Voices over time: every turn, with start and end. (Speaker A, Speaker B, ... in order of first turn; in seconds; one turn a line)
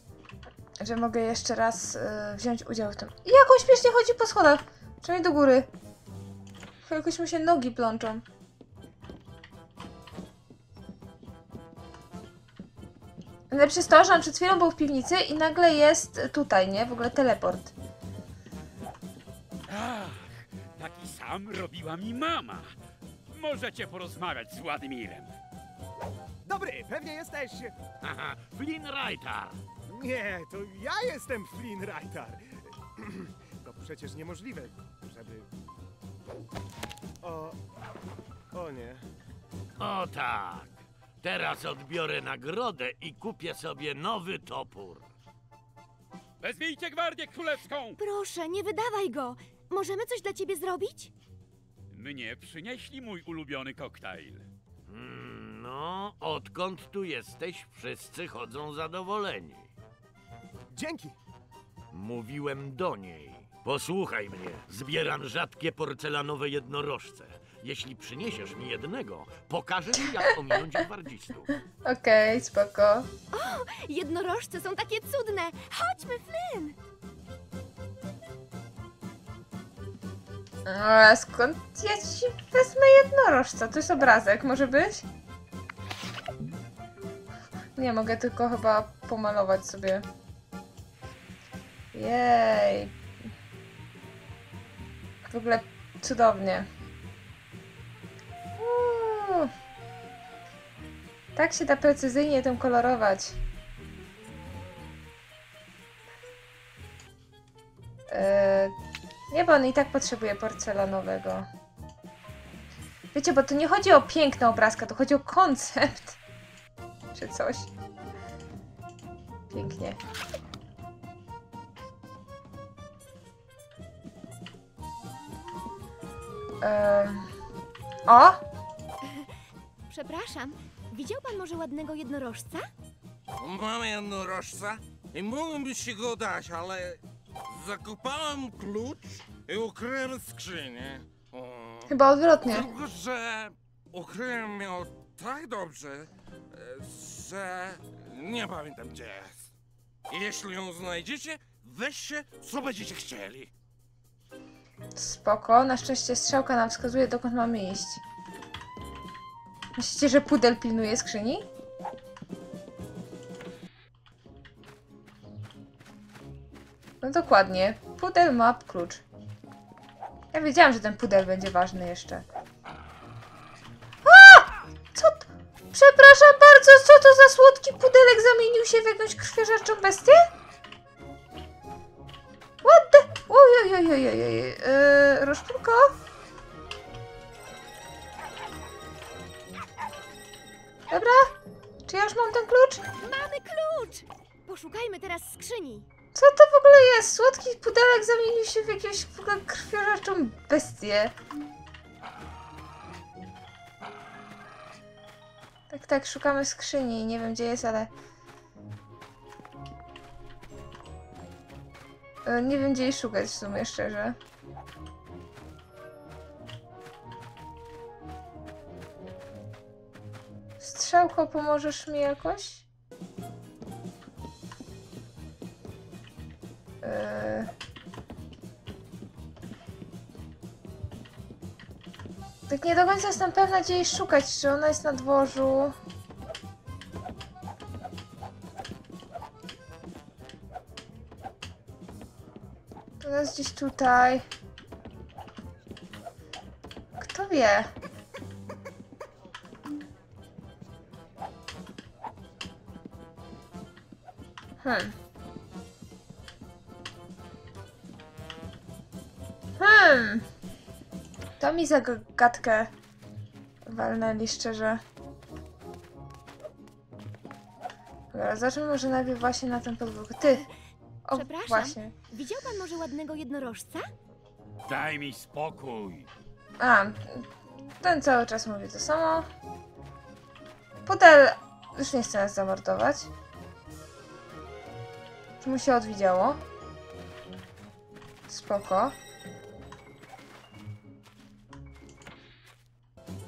Speaker A: 0.8-5.7
Speaker A: 6.8-8.2
Speaker A: 13.5-17.7
Speaker B: 19.7-22.7
Speaker B: 23.3-25.3
Speaker C: 26.4-27.7
Speaker D: 28.0-29.6
Speaker C: 29.9-35.5
Speaker C: 37.2-37.6
Speaker C: 38.5-39.0
Speaker D: 39.8-45.1
Speaker B: 46.4-48.0
Speaker E: 48.0-51.1
Speaker B: 51.9-54.5
Speaker D: 54.9-59.7
Speaker C: 60.7-61.1
Speaker D: 61.9-71.5
Speaker A: 71.8-73.1
Speaker E: 73.3-76.8
Speaker A: 80.7-85.0
Speaker A: 87.8-90.0
Speaker A: 91.9-92.9
Speaker A: 95.2-96.7
Speaker A: 98.6-99.5
Speaker A: 101.3-103.4
Speaker A: 108.1-108.7
Speaker A: 109.3-111.5
Speaker A: 113.1-116.2
Speaker A: 117.1-117.7
Speaker A: 119.5-120.0
Speaker A: 126.6-127.3
Speaker A: 128.1-128.4
Speaker E: 129.9-132.7
Speaker F: 133.4-141.9
Speaker A: 141.9-142.7
Speaker F: 142.4-149.5
Speaker F: 150.1-153.5
Speaker A: 154.9-158.0
Speaker A: 159.8-161.4
Speaker A: 167.0-169.0
Speaker A: 170.3-172.2
Speaker A: 174.0-180.2
Speaker A: 182.6-185.9
Speaker A: 190.9-191.3
Speaker A: 191.9-192.8
Speaker E: 193.0-195.9
Speaker A: 196.1-201.1
Speaker A: 205.7-207.9
Speaker A: 212.2-214.2
Speaker A: 220.6-222.6
Speaker A: 226.8-227.5
Speaker A: 232.5-235.7
Speaker A: 243.0-244.2
Speaker A: 247.0-247.7
Speaker A: 254.6-254.9
Speaker A: 259.6-260.2
Speaker A: 261.4-262.7
Speaker A: 263.6-264.8
Speaker A: 268.1-270.4
Speaker E: 270.2-270.5
Speaker A: 271.1-271.9
Speaker E: 271.1-273.9
Speaker D: 274.7-276.1
Speaker A: 276.6-279.3
Speaker A: 280.9-283.1
Speaker A: 285.4-286.4
Speaker A: 288.3-288.9